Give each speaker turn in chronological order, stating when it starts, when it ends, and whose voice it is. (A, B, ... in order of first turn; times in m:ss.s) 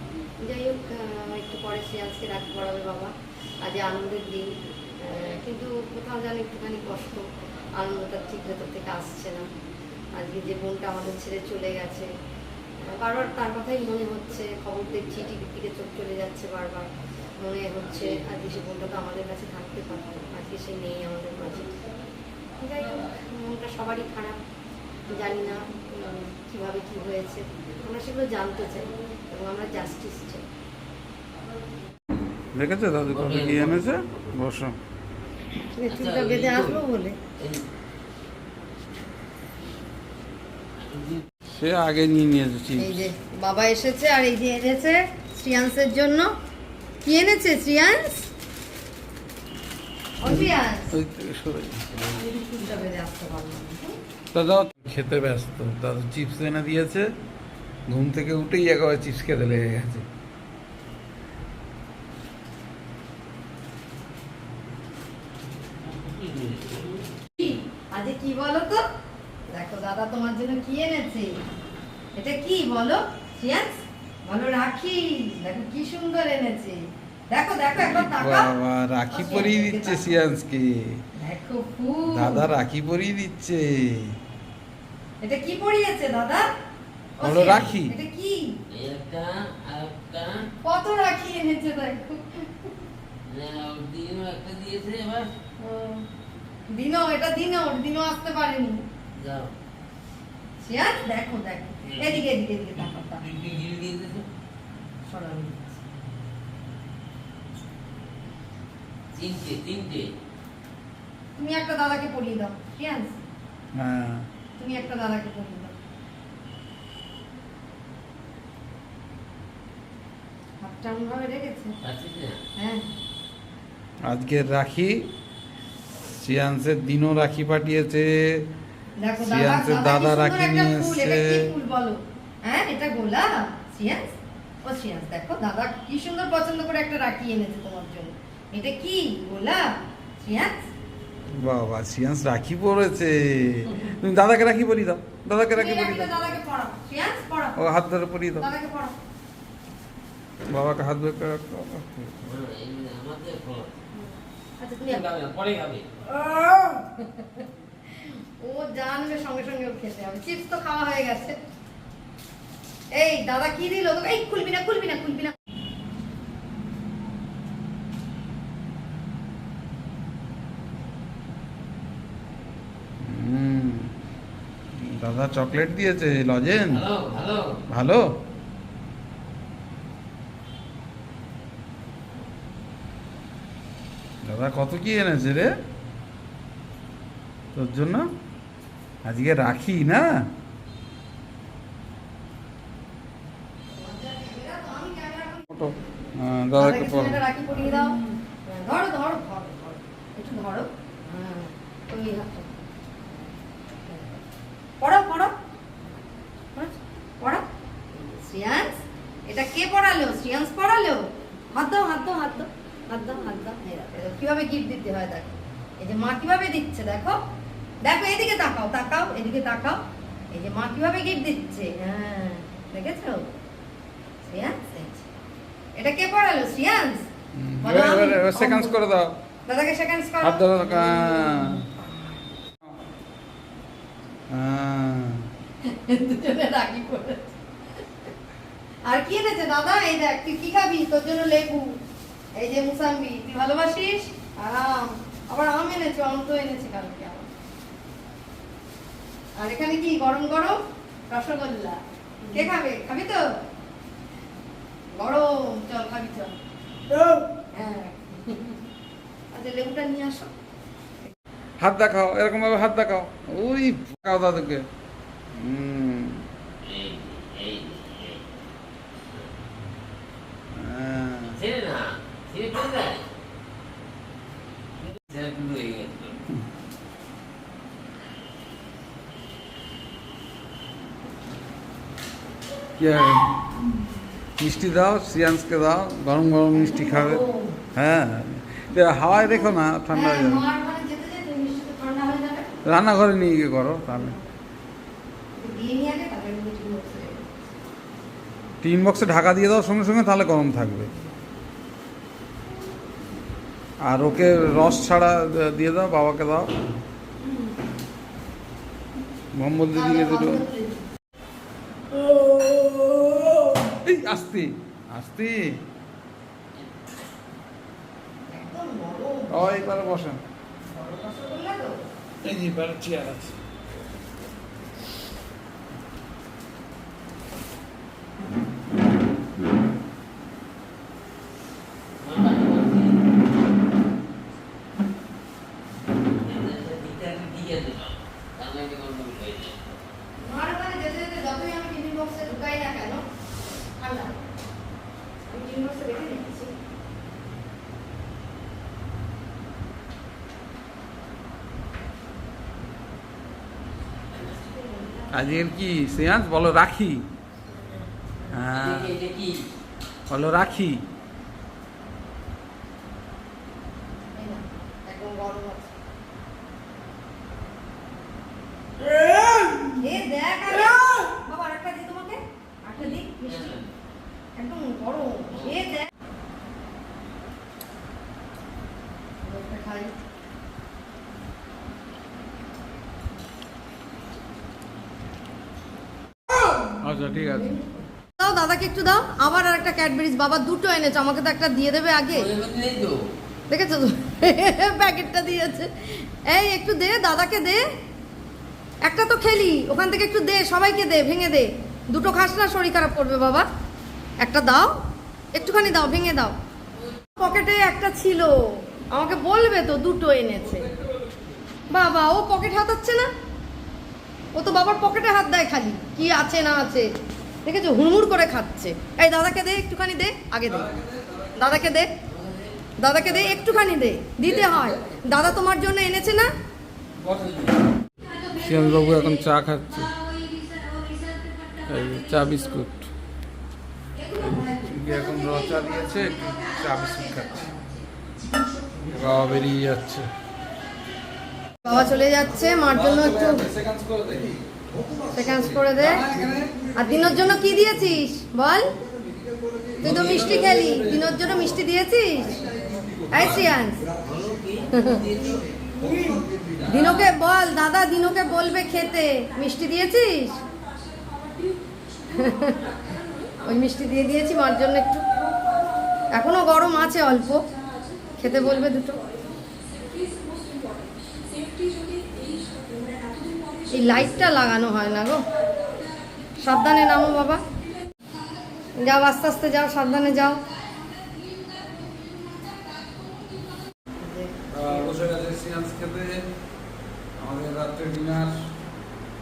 0:00.4-0:07.2 A
0:07.8-0:09.5 A
0:10.2-0:12.1 A
0:12.8-0:16.9 A
0:17.4-0:21.7 A
0:22.6-0:24.4 A
0:25.1-0:30.4 A
0:32.5-0:34.8 B
0:33.1-0:34.4 C
0:35.8-0:37.2 A
0:35.9-0:36.8 C
0:40.8-0:41.2 C
0:41.5-0:43.0 B
0:42.8-0:46.3 A
0:47.0-0:48.3 A
0:50.2-0:51.0 A
0:50.2-0:51.8 B
0:52.1-0:54.0 A
0:54.3-0:57.1 B
0:57.9-1:00.1 B
1:05.8-1:07.0 C
1:07.4-1:08.8 A
1:09.5-1:11.4 A
1:12.2-1:18.5 A
1:17.8-1:21.0 B
1:19.1-1:20.1 A
1:21.2-1:22.5 A
1:22.1-1:24.2 B
1:25.2-1:26.5 A
1:27.2-1:28.5 A
1:27.2-1:27.9 B
1:28.7-1:30.5 C
1:30.6-1:32.7 A
1:33.2-1:35.3 C
1:35.6-1:36.1 A
1:36.7-1:38.8 A
1:39.2-1:39.5 C
1:40.6-1:43.2 A
1:41.9-1:42.2 C
1:43.2-1:44.2 C
1:45.0-1:45.8 A
1:49.1-1:50.1 C
1:51.4-1:53.2 A
1:53.7-1:54.3 B
1:54.6-1:55.7 A
2:00.6-2:01.8 A
2:01.8-2:02.4 C
2:02.6-2:02.9 A
2:04.1-2:05.1 B
2:06.1-2:08.5 B
2:09.0-2:20.7 A
2:09.2-2:11.5 B
2:21.3-2:26.4 B
2:25.5-2:27.6 A
2:27.6-2:28.5 B
2:28.4-2:28.9 A
2:30.5-2:32.3 B
2:32.2-2:33.8 C
2:33.9-2:35.0 A
2:34.8-2:35.9 C
2:36.0-2:37.5 A
2:38.0-2:41.4 A
2:42.9-2:45.3 A
2:53.0-2:54.0 B
2:54.8-2:56.8 B
2:56.7-2:57.6 C
2:57.7-2:58.0 B
3:04.2-3:05.5 B
3:07.5-3:08.1 B
3:09.0-3:10.1 B
3:13.7-3:15.6 A
3:15.5-3:17.2 B
3:16.6-3:22.7 A
3:23.9-3:24.2 A
3:24.8-3:25.3 A
3:26.6-3:37.2 A
3:37.8-3:39.8 A
3:40.3-3:43.3 A
3:44.3-3:45.0 A
3:45.8-3:47.1 A
3:47.4-3:49.2 B
3:47.6-3:48.8 A
3:49.5-3:52.2 A
3:50.2-3:51.7 B
3:54.3-3:55.3 B
3:55.6-3:57.4 A
3:58.9-4:01.8 A
4:02.4-4:07.3 A
4:09.4-4:10.6 A
4:11.1-4:13.2 A
4:14.9-4:16.4 A
4:16.9-4:18.6 A
4:19.3-4:20.3 A
4:21.6-4:24.6 B
4:25.3-4:26.3 B
4:26.6-4:28.2 C
4:30.5-4:31.4 B
4:31.3-4:33.0 C
4:34.8-4:36.2 C
4:42.8-4:43.4 B
4:44.4-4:47.2 B
4:46.5-4:47.6 A
4:47.8-4:50.4 B
4:49.9-4:52.5 A
4:52.6-4:54.2 B
4:53.9-4:54.2 A
4:55.4-4:57.4 A
4:58.6-5:00.9 B
5:03.8-5:06.5 B
5:09.3-5:10.4 B
5:09.7-5:10.8 A
5:13.8-5:15.6 B
5:18.2-5:19.6 A
5:19.3-5:20.2 B
5:20.8-5:21.8 A
5:22.2-5:23.4 B
5:32.0-5:33.0 C
5:36.1-5:39.8 C
5:40.2-5:43.0 A
5:43.8-5:44.2 A
5:45.2-5:46.6 A
5:54.3-5:55.5 A
5:55.1-5:57.1 B
5:58.3-5:59.0 B
5:58.6-5:59.5 C
6:00.1-6:00.8 B
6:04.1-6:05.8 A
6:09.8-6:13.6 A
6:12.8-6:13.7 C
6:14.4-6:15.9 A
6:19.2-6:20.0 A
6:26.8-6:27.6 B
6:28.2-6:32.3 A
6:32.1-6:33.0 C
6:33.5-6:37.6 A
6:38.8-6:43.5 A
6:44.2-6:44.7 A
6:45.3-6:46.4 A
6:47.2-6:50.7 A
6:50.6-6:51.4 B
6:51.7-6:53.1 A
6:54.3-6:56.9 A
6:57.4-7:00.8 A
7:00.5-7:01.7 B
7:01.4-7:01.9 A
7:02.1-7:02.6 C
7:02.8-7:06.3 A
7:03.1-7:03.6 B
7:04.3-7:04.8 B
7:07.0-7:07.5 B
7:08.4-7:09.9 B
7:11.6-7:12.9 B
7:14.1-7:14.7 A
7:14.2-7:17.5 B
7:18.9-7:20.1 B
7:21.6-7:23.5 A
7:22.7-7:24.3 B
7:25.1-7:26.0 A
7:25.8-7:26.5 B
7:26.8-7:28.7 A
7:29.8-7:31.4 B
7:29.8-7:32.4 A
7:33.1-7:33.9 A
7:34.0-7:35.4 C
7:34.7-7:35.0 A
7:36.7-7:40.4 A
7:42.1-7:42.7 A
7:43.4-7:45.0 A
7:46.1-7:47.4 A
7:48.2-7:49.1 A
7:53.7-7:55.2 A
7:56.4-7:57.4 A
7:58.8-8:00.4 A
8:04.0-8:04.6 A
8:04.5-8:06.2 B
8:07.2-8:08.4 B